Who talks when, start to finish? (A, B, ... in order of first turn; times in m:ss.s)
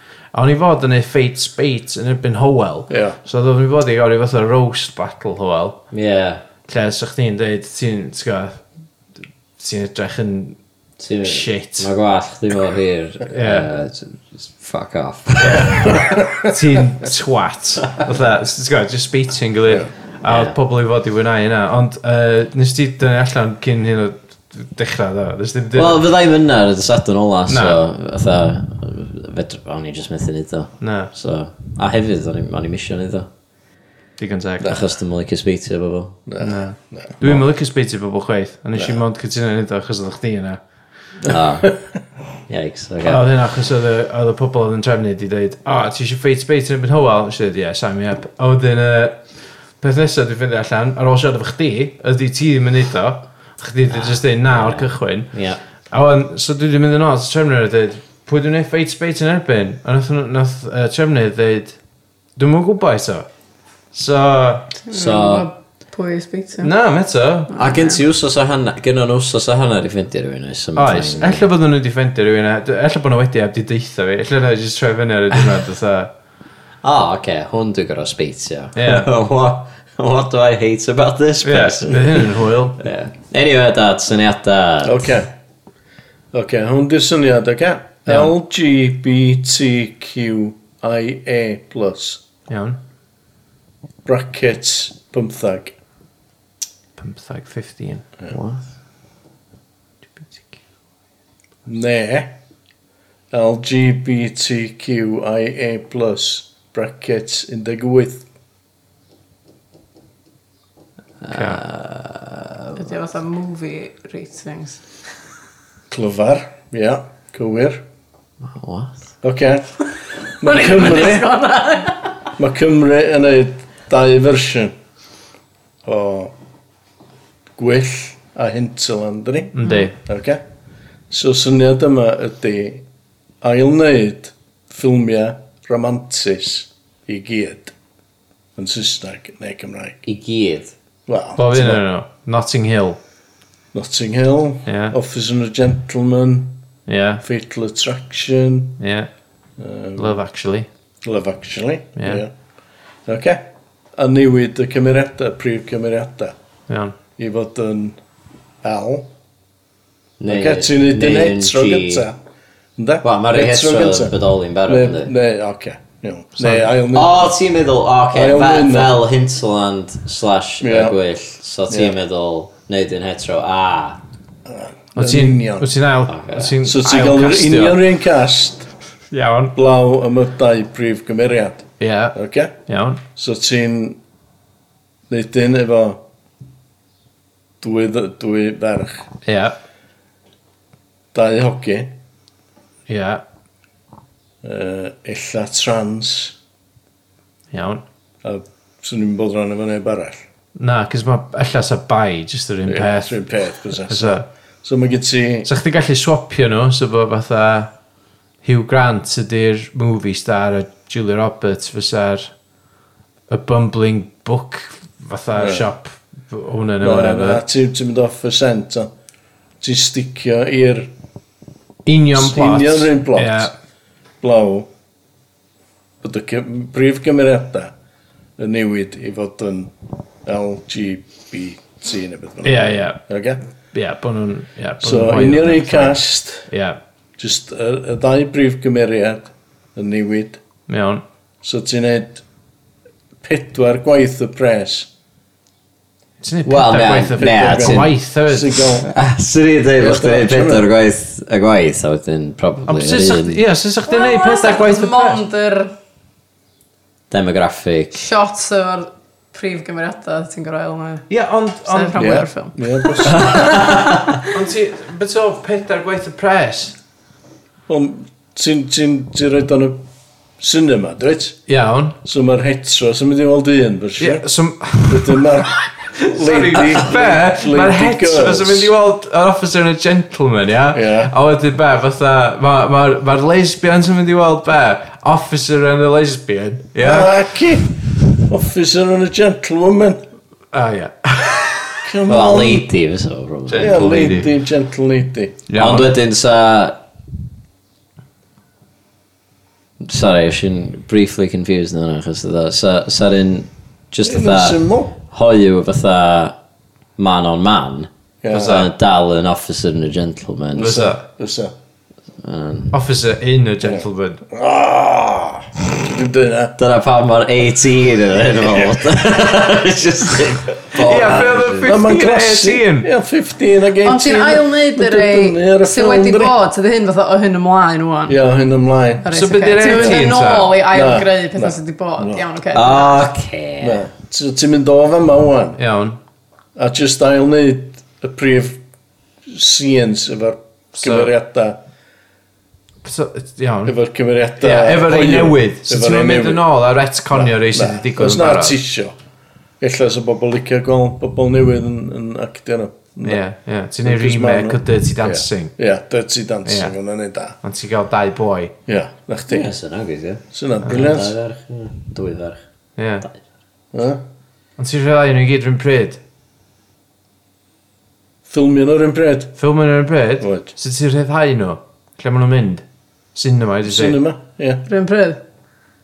0:00.3-0:05.8 A
0:02.9-0:03.2 B
0:05.9-0:06.4 C
0:06.6-0:08.6 A
0:09.6-0:10.6 A
0:11.0-0:16.0 C
0:11.2-0:11.9 A
0:13.3-0:13.7 A
0:15.4-0:16.5 B
0:15.4-0:26.0 A
0:20.2-0:20.6 C
0:25.8-0:33.3 C
0:27.5-0:27.8 A
0:30.8-0:31.1 A
0:34.2-0:34.8 A
0:34.6-0:36.2 C
0:36.3-0:37.5 B
0:36.4-0:40.6 A
0:38.8-0:39.0 B
0:41.3-0:41.7 B
0:41.3-0:41.8 C
0:42.5-0:43.2 C
0:43.0-0:49.2 A
0:49.8-0:55.3 A
0:53.9-0:55.6 C
0:55.9-1:01.8 A
1:02.4-1:03.3 A
1:03.9-1:04.7 A
1:04.9-1:06.7 D
1:04.9-1:05.5 C
1:06.6-1:07.6 A
1:07.5-1:08.0 D
1:07.6-1:11.5 C
1:10.8-1:16.1 A
1:16.8-1:25.1 C
1:18.8-1:19.1 A
1:21.4-1:22.8 A
1:24.8-1:25.3 B
1:26.3-1:32.2 B
1:28.1-1:28.3 A
1:32.5-1:32.8 A
1:34.0-1:35.8 B
1:37.0-1:38.1 A
1:38.3-1:38.6 C
1:41.7-1:42.4 B
1:43.3-1:48.3 B
1:51.2-1:52.8 C
1:51.3-1:51.6 A
1:52.8-1:54.8 D
1:55.9-1:57.8 B
1:58.5-1:59.0 C
1:59.2-1:59.7 B
2:00.3-2:01.3 B
2:00.4-2:02.1 D
2:02.4-2:04.8 B
2:05.8-2:06.3 B
2:07.6-2:10.4 B
2:09.6-2:10.0 A
2:11.1-2:12.8 B
2:13.4-2:17.7 B
2:18.6-2:20.0 B
2:20.0-2:20.7 C
2:21.1-2:21.8 B
2:21.4-2:23.0 A
2:23.7-2:26.6 B
2:24.7-2:25.0 A
2:26.9-2:27.2 A
2:27.2-2:28.8 B
2:28.8-2:29.1 A
2:29.6-2:30.2 B
2:30.0-2:30.7 A
2:31.0-2:32.3 B
2:32.0-2:32.2 A
2:33.1-2:36.4 B
2:36.7-2:37.0 A
2:37.2-2:38.0 B
2:38.6-2:39.1 B
2:40.2-2:42.1 C
2:40.3-2:42.2 B
2:42.8-2:47.3 B
2:43.0-2:45.1 C
2:46.4-2:46.7 A
2:46.9-2:54.0 C
2:48.1-2:49.0 B
2:50.6-2:51.0 B
2:51.7-2:52.0 B
2:54.5-2:55.7 B
2:55.0-2:57.8 A
2:56.1-2:56.5 C
2:56.6-2:58.7 B
2:59.1-2:59.6 A
2:59.6-3:02.5 B
3:01.8-3:02.2 A
3:02.7-3:03.0 A
3:03.2-3:04.0 B
3:05.1-3:06.0 B
3:07.6-3:09.1 B
3:09.2-3:09.6 A
3:11.1-3:12.0 B
3:12.9-3:13.2 A
3:14.4-3:16.4 B
3:17.5-3:17.8 A
3:18.2-3:20.2 B
3:20.6-3:23.2 A
3:22.6-3:25.5 B
3:23.8-3:24.2 A
3:25.4-3:27.7 A
3:28.4-3:32.3 A
3:33.3-3:37.4 A
3:35.4-3:35.7 B
3:36.8-3:38.9 B
3:39.6-3:40.9 B
3:41.9-3:43.5 A
3:42.1-3:43.5 B
3:44.2-3:44.7 B
3:46.0-3:47.7 B
3:48.4-3:49.7 B
3:50.2-3:53.4 B
3:52.4-3:53.0 A
3:53.7-3:56.8 A
3:54.8-3:56.5 B
3:57.2-4:00.4 B
4:00.7-4:01.0 A
4:01.4-4:02.2 B
4:03.2-4:04.9 B
4:06.2-4:08.7 A
4:06.5-4:08.0 C
4:07.2-4:08.9 B
4:08.9-4:13.4 C
4:09.8-4:10.7 B
4:12.7-4:15.2 A
4:13.9-4:15.7 D
4:17.1-4:18.0 C
4:17.9-4:21.1 D
4:21.1-4:22.1 A
4:21.7-4:24.0 D
4:22.0-4:23.4 B
4:23.1-4:24.2 C
4:24.3-4:26.8 A
4:27.7-4:29.8 B
4:30.4-4:31.4 B
4:31.5-4:32.0 A
4:32.0-4:34.3 B
4:34.0-4:47.2 A
4:34.8-4:38.7 B
4:40.7-4:41.1 B
4:46.8-4:50.0 B
4:50.5-4:51.9 A
4:51.8-4:52.7 B
4:52.1-4:54.2 C
4:53.5-4:54.3 A
4:53.6-4:55.4 B
4:55.5-4:55.9 A
4:55.6-4:56.8 C
4:59.8-5:06.4 C
5:04.0-5:04.9 B
5:07.0-5:10.8 C
5:08.2-5:08.7 B
5:08.3-5:08.7 A
5:10.5-5:11.5 B
5:10.6-5:11.0 A
5:12.2-5:12.8 C
5:12.7-5:14.2 A
5:13.6-5:16.6 B
5:16.6-5:21.9 C
5:18.4-5:18.8 B
5:20.8-5:22.9 A
5:21.6-5:26.3 B
5:23.8-5:28.2 D
5:28.1-5:29.1 B
5:29.0-5:33.1 D
5:29.1-5:30.6 A
5:29.7-5:30.0 B
5:30.7-5:32.2 B
5:32.5-5:33.8 C
5:33.6-5:35.6 B
5:35.6-5:36.0 A
5:36.6-5:38.6 B
5:39.3-5:41.6 B
5:40.8-5:41.1 A
5:42.8-5:43.8 A
5:43.7-5:46.4 B
5:44.4-5:48.6 A
5:47.1-5:49.0 B
5:49.6-5:53.2 B
5:53.0-5:55.5 A
5:53.8-5:57.4 B
5:56.5-5:56.7 A
5:57.4-5:58.6 A
5:58.7-5:59.5 B
5:59.3-6:02.4 C
6:00.3-6:01.2 B
6:02.8-6:03.1 A
6:03.7-6:04.0 B
6:04.6-6:06.0 A
6:08.3-6:09.4 B
6:09.4-6:14.0 A
6:10.2-6:10.5 B
6:13.6-6:14.6 B
6:14.7-6:15.2 D